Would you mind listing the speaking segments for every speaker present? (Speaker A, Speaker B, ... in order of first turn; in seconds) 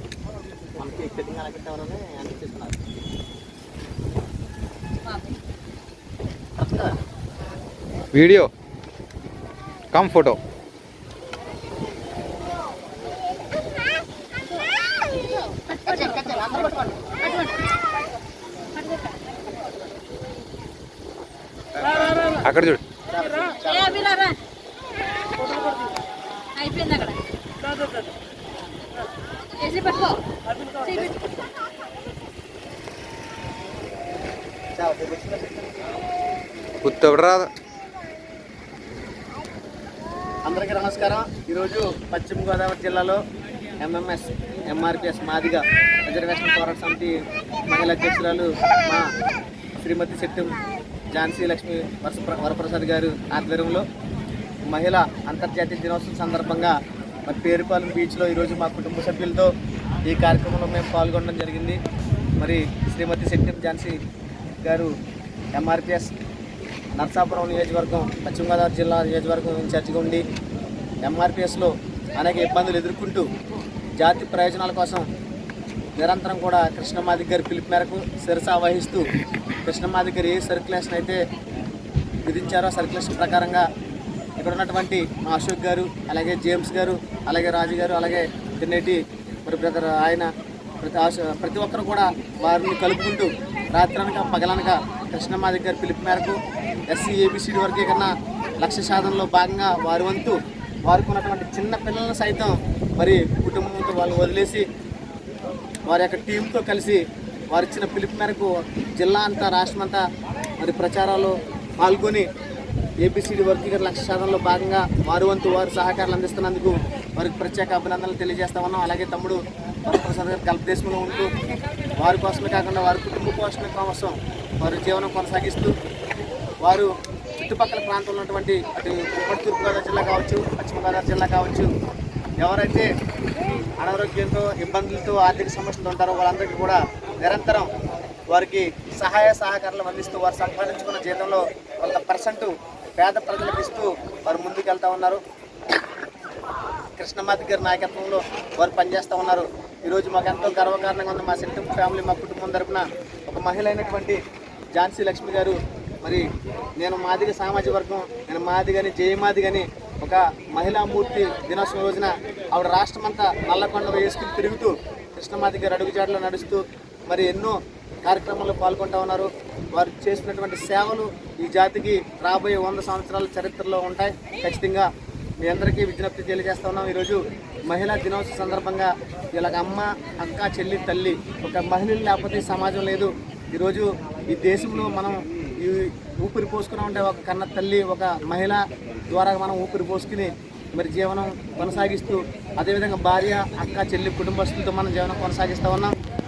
Speaker A: 0.8-2.8, 6.6-6.9, 15.9-16.9, 23.1-24.2, 34.8-35.5, 40.5-43.2, 43.8-47.1, 47.7-49.1, 49.8-50.6, 51.1-53.9, 54.7-59.5, 60.0-61.8, 62.4-64.0, 64.6-64.9, 65.5-66.1, 66.9-70.2, 71.0-73.3, 74.0-75.0, 76.0-79.1, 79.7-81.2, 82.2-83.7, 84.4-90.3, 90.8-104.6, 105.9-110.0, 110.6-112.3, 113.0-121.3, 122.0-125.7, 126.6-131.7, 132.4-132.9, 133.8-137.7, 138.3-145.2, 147.0-154.2, 154.8-156.2, 156.8-174.9, 175.4-195.9
Speaker B: 8.1-8.5, 9.9-10.4, 21.8-22.8, 36.8-37.5
Speaker C: 23.7-24.3, 26.5-27.2, 29.6-30.2, 30.8-31.1